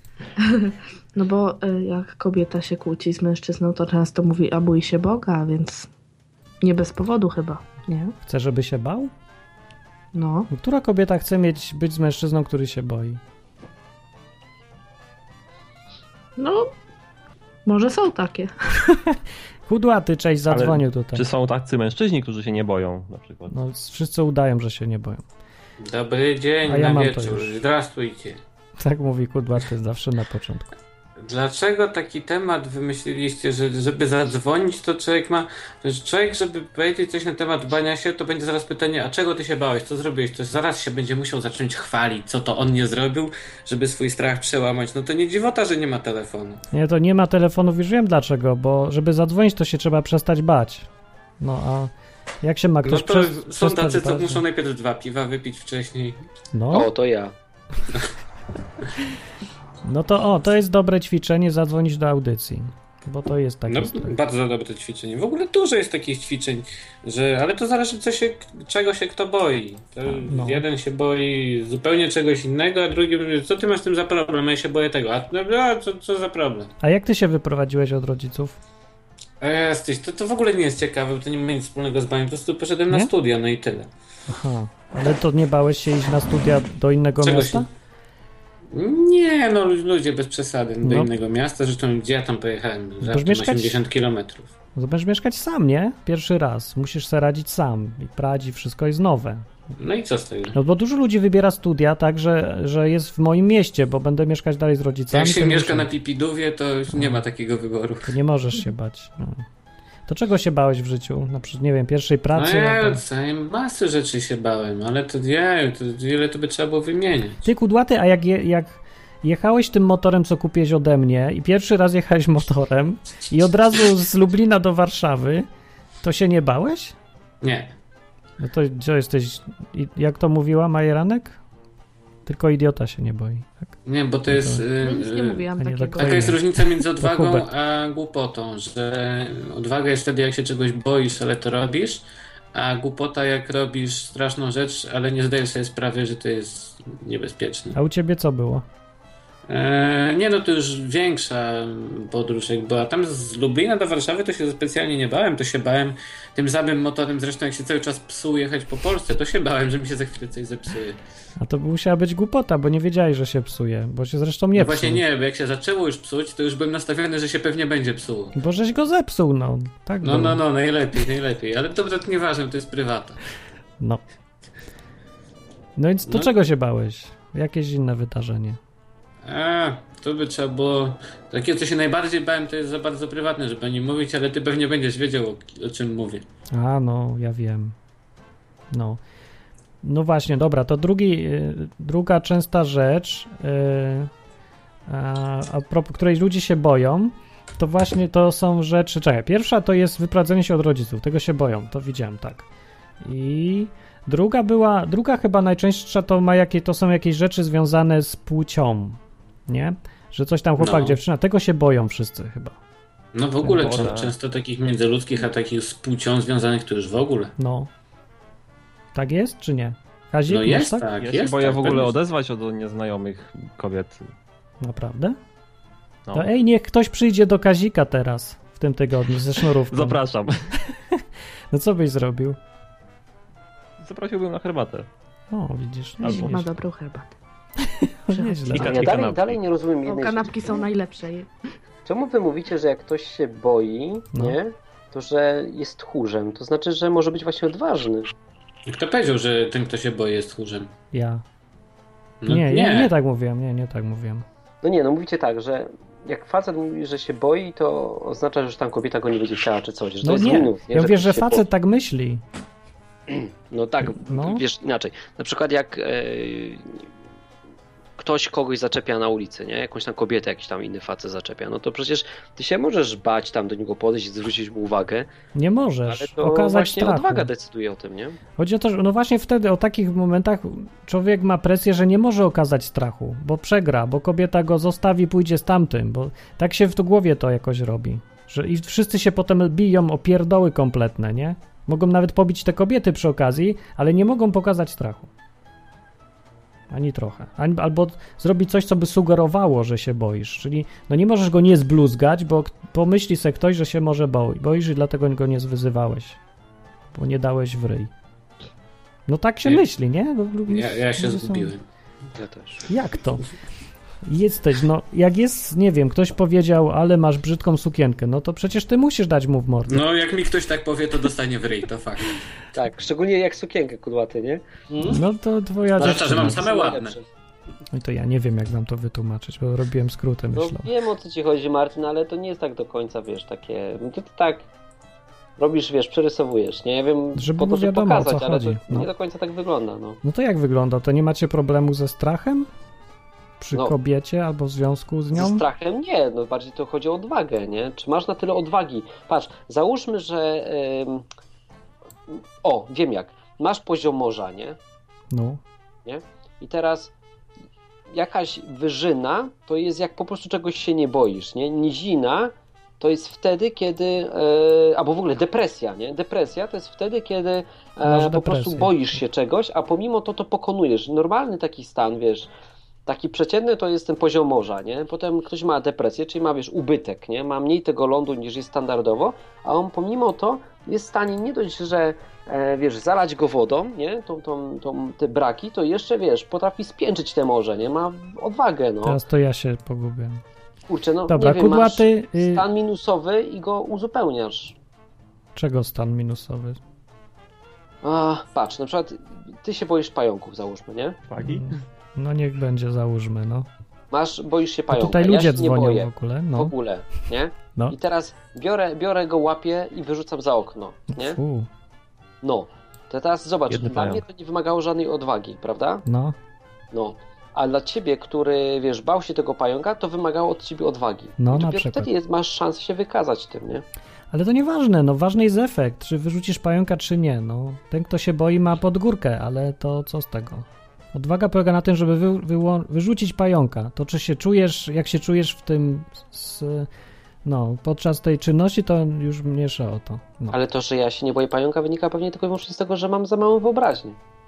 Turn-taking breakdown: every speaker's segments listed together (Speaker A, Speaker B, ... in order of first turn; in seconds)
Speaker A: 0.4-5.9, 6.6-8.1, 10.1-10.5, 16.4-16.7, 17.7-18.8, 134.8-136.3, 236.0-237.1, 238.1-238.6, 239.8-241.3
Speaker B: 8.2-9.1, 10.5-13.2, 19.7-21.2, 23.5-25.2, 26.6-27.6, 28.8-30.7, 46.7-50.9, 51.4-54.4, 56.5-56.9, 59.9-64.2, 70.1-70.6, 76.8-78.6, 84.3-87.7, 90.8-91.1, 93.0-93.8, 94.8-99.5, 100.5-105.9, 106.9-107.2, 108.0-109.5, 110.1-113.0, 117.4-125.5, 126.0-127.0, 128.4-131.4, 132.3-133.7, 134.3-134.7, 135.6-137.5, 147.7-148.7, 161.4-165.0, 168.3-170.4, 175.8-178.6, 186.5-187.8, 188.7-189.0, 189.8-194.1, 194.9-202.5, 203.0-212.6, 213.4-213.8, 217.4-217.7, 218.9-220.9, 224.6-225.2, 226.1-230.0, 230.7-232.4, 235.3-236.5, 237.6-239.0, 250.9-251.2, 252.3-254.2, 260.0-262.2, 263.8-264.4, 275.4-277.3, 278.4-295.1, 296.7-306.2, 306.9-307.9, 309.1-311.5, 312.7-313.3, 314.0-319.8, 324.9-326.5, 327.7-330.7, 337.2-338.9, 340.0-342.5, 343.4-345.4, 355.1-355.4, 367.8-368.8, 388.8-390.2, 391.1-392.4, 395.4-396.6, 401.2-403.5, 404.7-406.5, 410.9-411.5, 415.9-416.2, 421.2-421.9, 424.1-436.7, 437.2-440.4
Speaker C: 20.5-23.6, 213.5-214.1, 221.0-224.1, 229.7-230.4, 233.8-234.9, 236.0-236.4, 238.6-239.4, 401.1-401.5, 413.5-414.0
Speaker D: 25.8-28.4, 31.2-46.6, 52.8-56.2, 63.7-76.7, 79.4-83.9, 87.2-87.7, 88.7-94.5, 99.8-100.5, 105.1-108.1, 112.3-117.4, 127.4-127.7, 133.9-147.8, 149.5-161.0, 164.5-168.3, 170.0-173.2, 179.2-186.2, 210.6-211.0, 213.1-217.3, 220.3-221.9, 248.7-250.7, 252.2-252.9, 310.5-311.6, 319.7-322.1, 325.8-327.0
Speaker E: 56.7-57.3, 238.6-240.6, 241.9-248.1, 254.6-261.4, 263.1-266.8, 268.0-275.1, 275.9-278.2, 312.2-312.6, 322.5-325.0, 326.1-327.0, 330.4-334.4, 335.4-340.0, 345.1-351.1, 352.1-354.6, 355.9-356.9, 357.9-372.3, 372.9-389.0, 390.7-394.6, 397.8-401.0, 403.9-411.2, 412.2-415.8, 416.7-423.6, 440.3-444.0